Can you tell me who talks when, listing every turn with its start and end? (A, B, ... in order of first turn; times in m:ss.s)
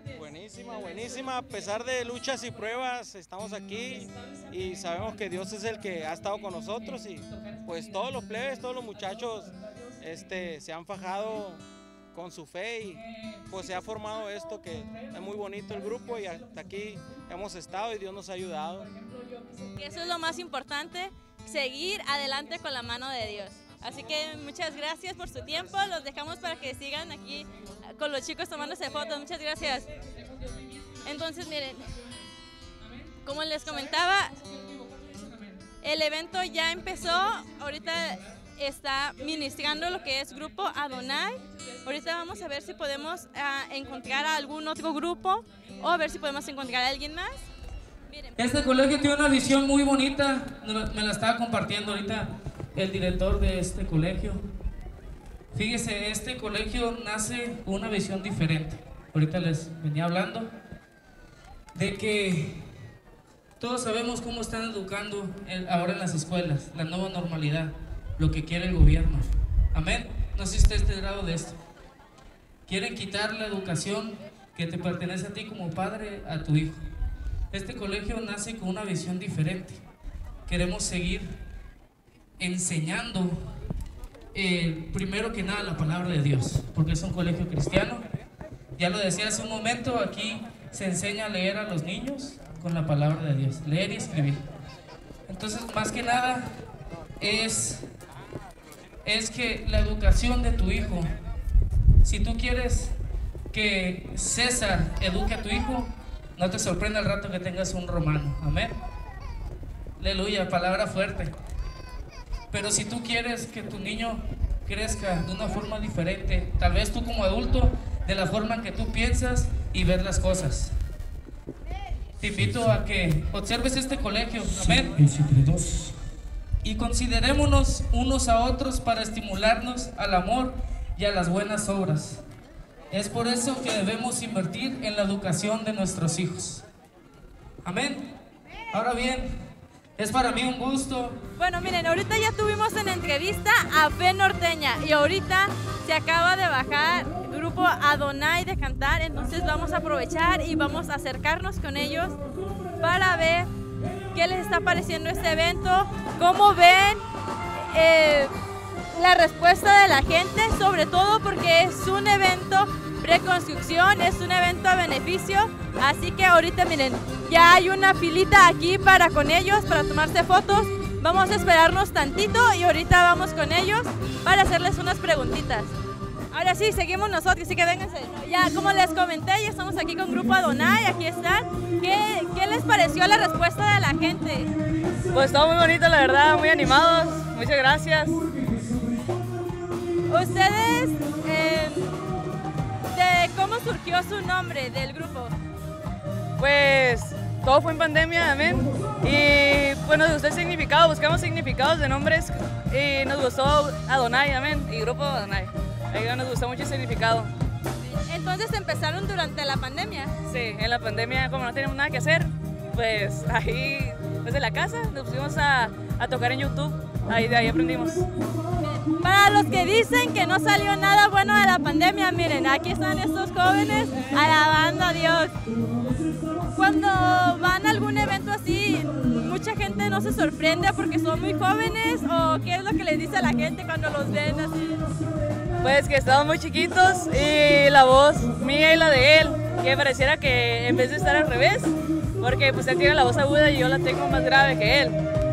0:00.1-0:11.6 A
0:12.1-0:18.9 A
0:19.7-0:29.9 B
0:31.0-0:31.9 B
0:33.2-0:34.4 B
0:35.8-0:47.5 B
0:48.1-0:49.1 B
0:48.4-0:54.4 C
0:55.5-1:00.5 C
1:01.8-1:02.7 C
1:03.6-1:11.6 C
1:12.7-1:16.8 C
1:17.5-1:19.8 C
1:20.5-1:21.4 C
1:22.4-1:23.4 C
1:24.3-1:28.0 C
1:28.8-1:34.4 C
1:35.3-1:36.5 C
1:37.2-1:37.9 C
1:39.0-1:41.1 C
1:42.0-1:43.0 C
1:43.5-1:48.8 C
1:50.0-1:51.3 C
1:52.5-2:00.7 C
2:02.2-2:05.4 C
2:06.6-2:12.2 C
2:12.9-2:16.6 C
2:17.6-2:18.1 C
2:18.7-2:19.4 C
2:20.0-2:21.2 C
2:21.4-2:32.2 B
2:32.8-2:33.5 B
2:34.1-2:37.0 B
2:37.6-2:38.3 B
2:38.9-2:55.7 B
2:56.3-3:04.5 B
3:05.1-3:08.2 D
3:10.1-3:11.9 B
3:12.9-3:15.3 B
3:16.4-3:27.3 D
3:28.0-3:30.1 B
3:30.2-3:38.1 D
3:38.6-3:45.3 B
3:46.6-3:54.8 B
3:55.6-4:05.0 D